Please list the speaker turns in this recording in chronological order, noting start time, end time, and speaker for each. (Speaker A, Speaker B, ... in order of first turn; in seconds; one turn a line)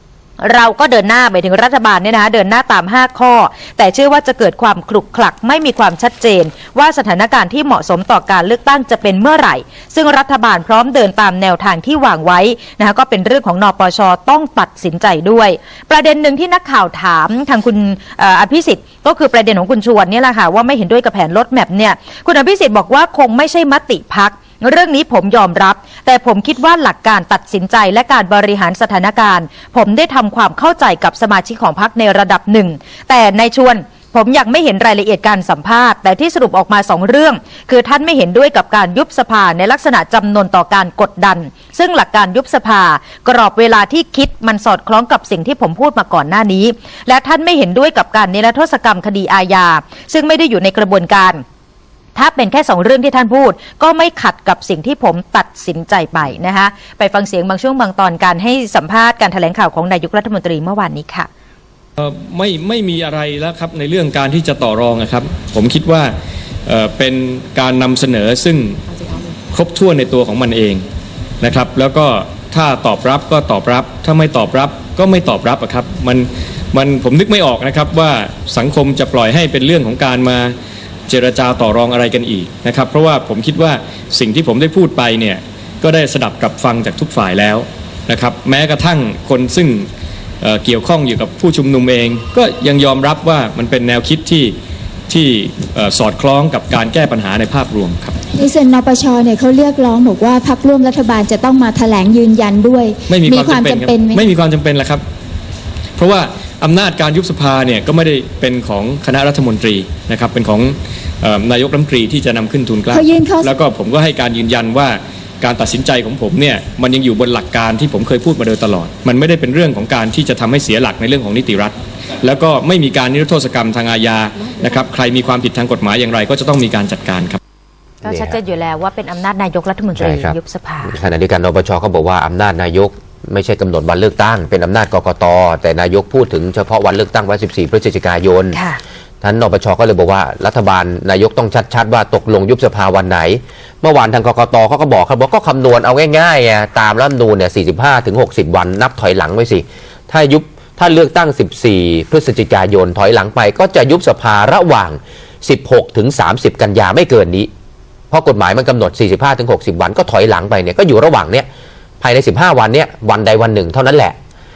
Speaker A: 0.4-51.4
Speaker A: 52.1-61.3
Speaker B: 62.0-66.1
Speaker B: 66.7-68.8
Speaker B: 69.5-70.8
Speaker B: 71.4-80.5
Speaker B: 81.1-89.9
Speaker B: 90.4-94.5
Speaker B: 95.1-98.2
Speaker C: 98.3-104.2
Speaker B: 103.1-105.0
Speaker B: 106.0-127.4
Speaker C: 112.9-113.5
Speaker A: 128.0-130.9
Speaker D: 128.1-128.4
Speaker D: 129.9-138.6
Speaker A: 138.5-138.8
Speaker D: 139.2-157.5
Speaker D: 158.1-161.5
Speaker D: 162.0-164.2